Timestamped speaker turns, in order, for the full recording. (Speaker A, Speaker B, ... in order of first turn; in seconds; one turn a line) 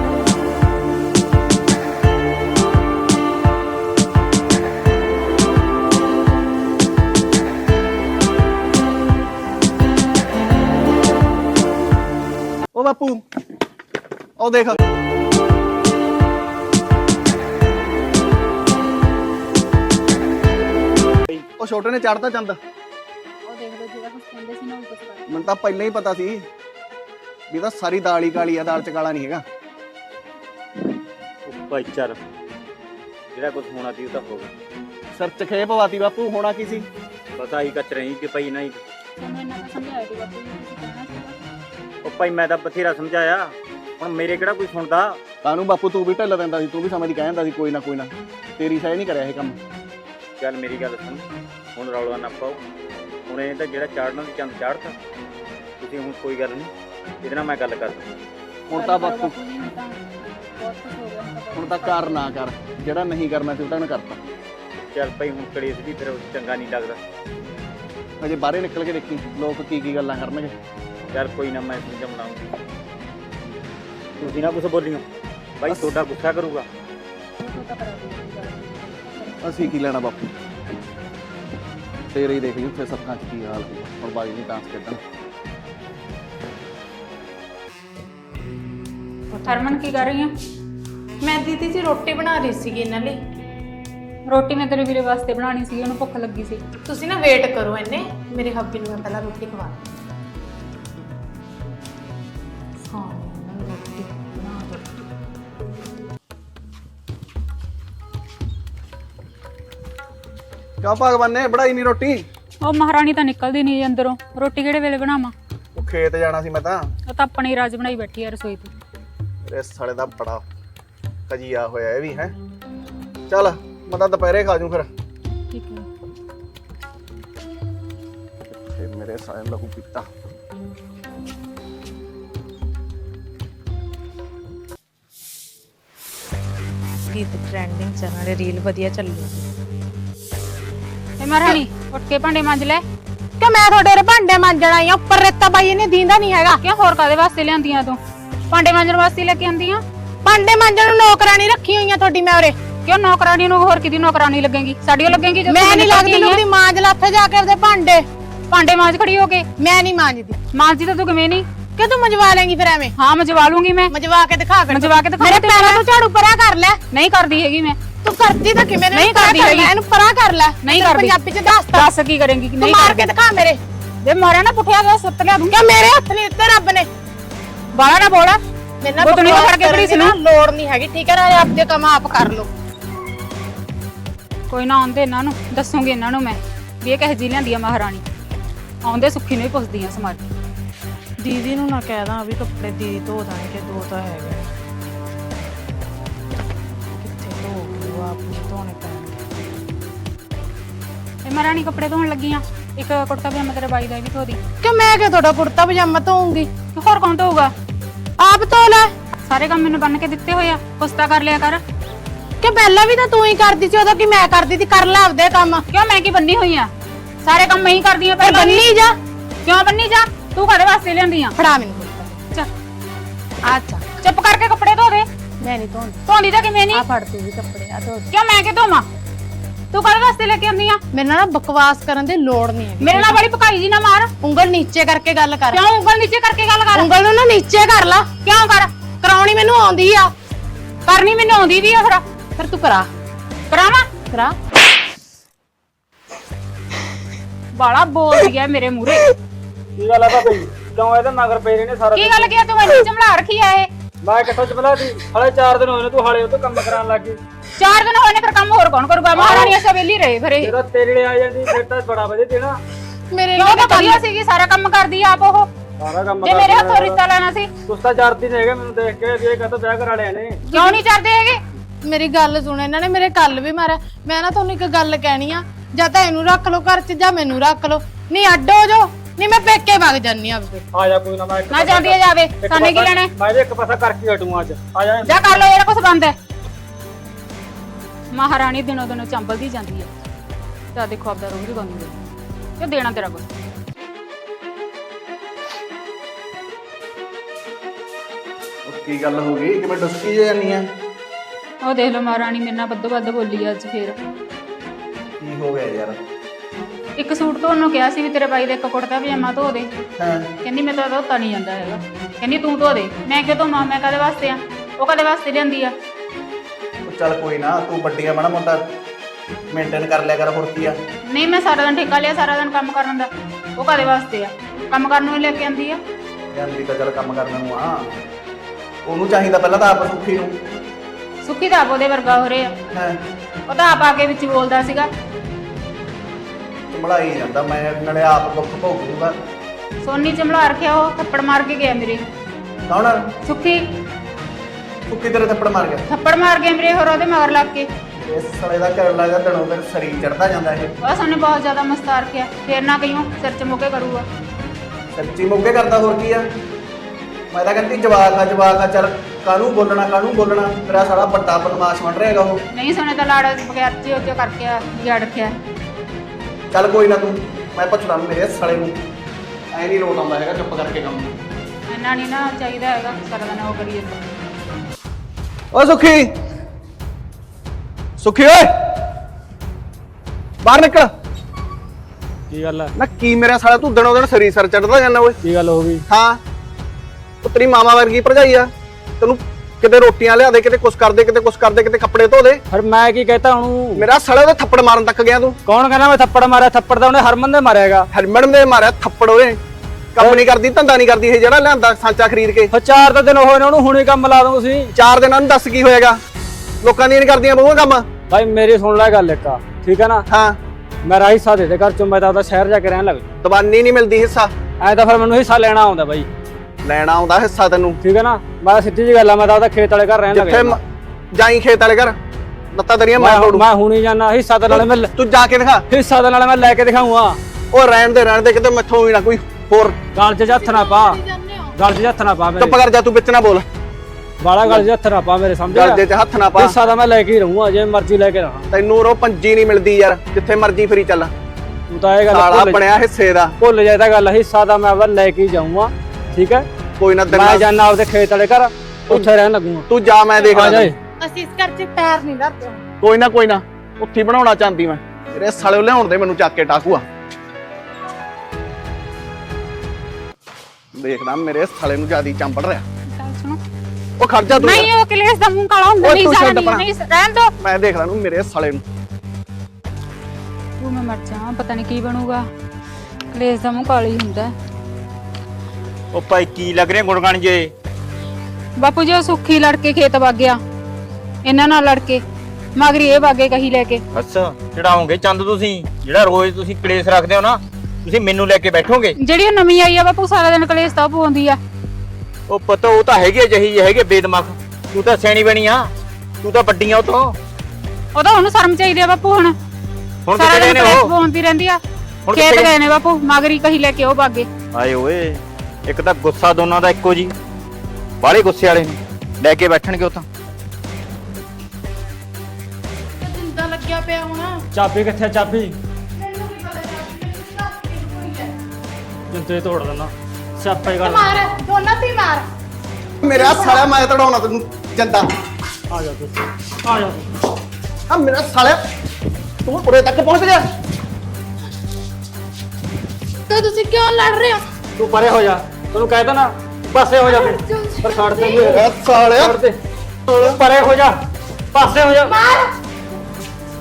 Speaker A: 12.7-13.2
Speaker A: 14.4-14.8
Speaker A: 21.6-22.6
Speaker B: 23.4-25.3
Speaker A: 25.3-26.5
Speaker A: 27.5-29.4
Speaker C: 31.4-32.2
Speaker C: 33.3-34.5
Speaker A: 35.1-36.9
Speaker C: 37.4-38.8
Speaker B: 39.2-41.4
Speaker C: 42.0-45.2
Speaker A: 45.4-49.6
Speaker C: 50.4-51.2
Speaker C: 51.8-52.6
Speaker C: 53.3-55.0
Speaker C: 55.8-56.7
Speaker C: 57.2-58.1
Speaker A: 58.7-59.4
Speaker B: 58.8-62.3
Speaker A: 61.5-64.2
Speaker C: 64.9-67.0
Speaker A: 68.2-70.5
Speaker C: 71.1-72.5
Speaker C: 74.2-75.0
Speaker C: 75.6-76.7
Speaker B: 77.4-79.4
Speaker A: 79.4-80.4
Speaker A: 82.1-85.0
Speaker D: 89.3-89.8
Speaker B: 89.4-90.3
Speaker D: 91.2-93.2
Speaker B: 94.3-96.6
Speaker D: 96.9-99.8
Speaker D: 102.9-104.9
Speaker A: 110.8-112.2
Speaker B: 112.6-115.3
Speaker A: 115.8-116.9
Speaker B: 117.1-118.7
Speaker A: 119.5-120.5
Speaker A: 121.3-122.3
Speaker A: 123.3-124.9
Speaker D: 125.5-125.8
Speaker A: 128.5-130.1
Speaker D: 137.1-139.5
Speaker B: 141.2-142.8
Speaker D: 143.4-146.6
Speaker B: 146.6-148.0
Speaker B: 148.5-149.8
Speaker D: 150.2-152.6
Speaker B: 152.8-156.4
Speaker D: 155.5-158.1
Speaker B: 158.5-159.5
Speaker D: 159.6-160.4
Speaker B: 160.5-161.5
Speaker D: 161.8-162.9
Speaker B: 163.0-163.9
Speaker D: 163.9-166.8
Speaker B: 164.7-165.9
Speaker B: 166.9-167.8
Speaker D: 168.0-171.9
Speaker B: 168.9-169.7
Speaker B: 170.6-171.2
Speaker B: 171.7-173.1
Speaker D: 172.6-173.6
Speaker B: 174.0-175.6
Speaker D: 175.5-176.9
Speaker B: 177.8-178.4
Speaker D: 178.8-182.5
Speaker B: 179.0-180.2
Speaker B: 184.5-188.1
Speaker B: 188.8-190.2
Speaker D: 191.2-194.5
Speaker D: 197.0-199.2
Speaker B: 201.2-204.4
Speaker D: 204.6-206.5
Speaker B: 206.7-207.5
Speaker D: 208.2-208.9
Speaker B: 209.2-211.6
Speaker D: 212.4-215.7
Speaker B: 215.7-216.7
Speaker B: 217.2-218.7
Speaker D: 218.2-219.0
Speaker B: 219.4-221.4
Speaker D: 221.4-222.2
Speaker D: 223.4-224.0
Speaker B: 224.0-225.1
Speaker D: 225.4-226.0
Speaker B: 226.1-226.9
Speaker D: 226.7-228.1
Speaker B: 228.1-228.9
Speaker B: 229.7-230.8
Speaker D: 230.9-233.2
Speaker B: 232.8-234.1
Speaker D: 234.2-235.7
Speaker B: 235.5-236.9
Speaker D: 236.8-238.1
Speaker B: 238.2-238.7
Speaker D: 239.0-240.1
Speaker B: 240.9-242.0
Speaker D: 242.4-242.9
Speaker B: 243.5-243.9
Speaker D: 244.1-244.4
Speaker B: 247.6-249.1
Speaker E: 249.8-252.3
Speaker B: 252.0-253.7
Speaker E: 254.0-257.2
Speaker B: 257.6-260.5
Speaker D: 259.2-259.6
Speaker E: 260.4-262.6
Speaker D: 263.1-264.0
Speaker B: 263.4-265.5
Speaker E: 265.8-267.0
Speaker B: 266.2-267.5
Speaker E: 267.7-270.5
Speaker B: 270.5-271.4
Speaker D: 270.5-270.8
Speaker D: 271.8-280.7
Speaker E: 280.7-285.3
Speaker B: 281.5-283.1
Speaker B: 285.1-286.2
Speaker B: 288.1-289.9
Speaker B: 290.7-291.9
Speaker B: 292.6-293.3
Speaker A: 298.7-300.7
Speaker B: 301.6-304.0
Speaker A: 305.2-306.0
Speaker B: 307.0-309.7
Speaker A: 310.0-310.3
Speaker B: 310.4-315.7
Speaker A: 316.9-318.7
Speaker A: 319.5-320.8
Speaker B: 321.1-325.8
Speaker A: 326.3-327.9
Speaker A: 328.9-330.4
Speaker B: 331.2-332.6
Speaker A: 332.7-333.0
Speaker B: 333.5-334.9
Speaker A: 336.7-339.2
Speaker B: 339.8-342.0
Speaker A: 342.7-343.1
Speaker B: 343.2-343.6
Speaker A: 344.9-345.8
Speaker B: 345.9-347.7
Speaker A: 348.0-350.7
Speaker B: 350.8-354.1
Speaker A: 354.9-356.3
Speaker A: 357.3-362.4
Speaker B: 362.5-365.3
Speaker A: 366.5-368.8
Speaker A: 369.5-371.1
Speaker B: 371.7-374.0
Speaker A: 375.5-376.1
Speaker A: 378.0-378.7
Speaker A: 380.4-380.9
Speaker E: 382.3-382.7
Speaker A: 382.8-385.2
Speaker E: 385.2-385.9
Speaker A: 385.9-386.2
Speaker A: 387.2-392.4
Speaker E: 392.5-393.9
Speaker A: 393.8-395.4
Speaker E: 395.5-397.9
Speaker A: 397.9-399.4
Speaker A: 399.9-402.5
Speaker E: 402.5-404.7
Speaker A: 404.8-406.0
Speaker A: 406.6-407.9
Speaker E: 408.1-410.1
Speaker A: 410.1-410.4
Speaker E: 410.8-413.1
Speaker A: 413.2-414.3
Speaker E: 414.6-416.1
Speaker A: 416.6-417.8
Speaker E: 417.8-420.6
Speaker A: 420.1-420.6
Speaker A: 421.1-422.0
Speaker A: 422.5-423.4
Speaker E: 423.0-424.9
Speaker A: 424.5-425.7
Speaker E: 425.7-427.2
Speaker A: 427.5-429.8
Speaker E: 429.9-431.0
Speaker D: 430.4-431.5
Speaker E: 431.6-432.6
Speaker A: 432.4-433.4
Speaker E: 434.2-435.8
Speaker A: 435.5-436.6
Speaker E: 436.4-438.5
Speaker A: 438.5-441.1
Speaker E: 441.7-442.6
Speaker A: 442.1-443.4
Speaker E: 443.4-446.5
Speaker A: 446.8-447.5
Speaker E: 447.1-449.7
Speaker A: 449.7-450.7
Speaker E: 450.3-450.8
Speaker D: 451.0-452.7
Speaker A: 452.8-456.9
Speaker A: 460.8-462.6
Speaker B: 462.9-463.4
Speaker A: 464.0-464.7
Speaker B: 464.4-467.3
Speaker A: 465.8-466.7
Speaker A: 467.4-468.6
Speaker B: 470.6-472.2
Speaker B: 473.1-474.3
Speaker C: 475.9-477.5
Speaker B: 478.6-480.4
Speaker B: 481.2-482.0
Speaker B: 482.6-483.8
Speaker C: 483.9-489.0
Speaker B: 489.0-491.4
Speaker C: 492.3-495.7
Speaker C: 496.2-497.1
Speaker B: 497.9-499.4
Speaker C: 500.1-500.9
Speaker B: 500.1-501.6
Speaker C: 502.1-502.5
Speaker B: 502.1-504.3
Speaker C: 504.5-507.1
Speaker C: 508.0-510.1
Speaker D: 513.0-514.5
Speaker E: 514.5-515.6
Speaker D: 516.0-518.4
Speaker E: 519.1-521.1
Speaker D: 520.8-522.3
Speaker A: 523.0-525.1
Speaker D: 523.1-523.7
Speaker E: 525.7-527.1
Speaker A: 527.9-528.6
Speaker A: 529.4-530.5
Speaker D: 533.3-534.5
Speaker E: 534.8-539.6
Speaker D: 537.0-538.6
Speaker A: 538.4-539.4
Speaker E: 540.1-541.0
Speaker E: 541.5-542.2
Speaker D: 542.0-542.5